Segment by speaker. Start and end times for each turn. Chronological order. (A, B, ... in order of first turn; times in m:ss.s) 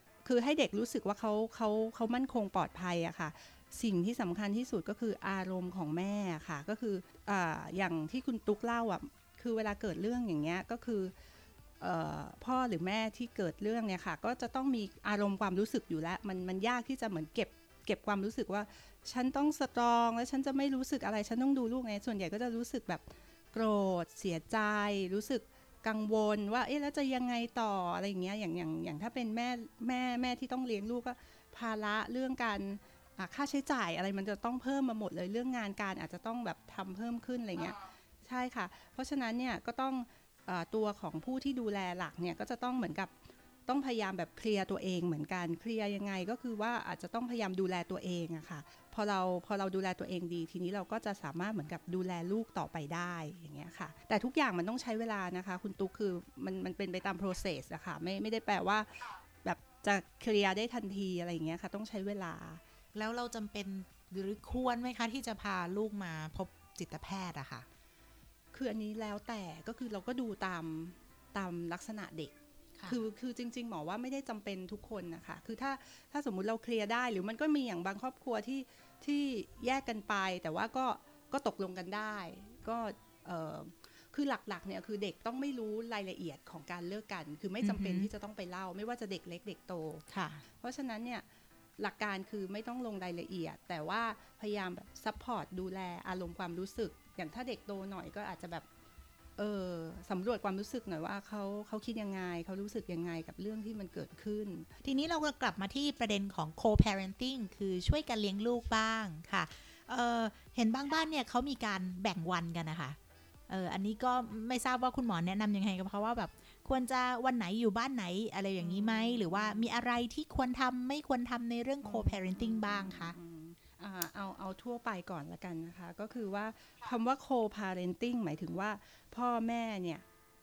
0:00.2-0:11.1 A
0:11.8-0:43.1 A
0:43.7-1:02.6 A
1:02.9-1:07.7 B
1:08.5-1:12.3 A
1:12.9-1:31.2 A
1:27.6-1:28.1 B
1:30.1-1:30.4 B
1:31.8-1:38.6 A
1:39.4-1:44.7 A
1:44.8-1:53.0 B
1:53.5-2:03.2 B
1:58.6-1:59.7 A
2:01.8-2:10.0 A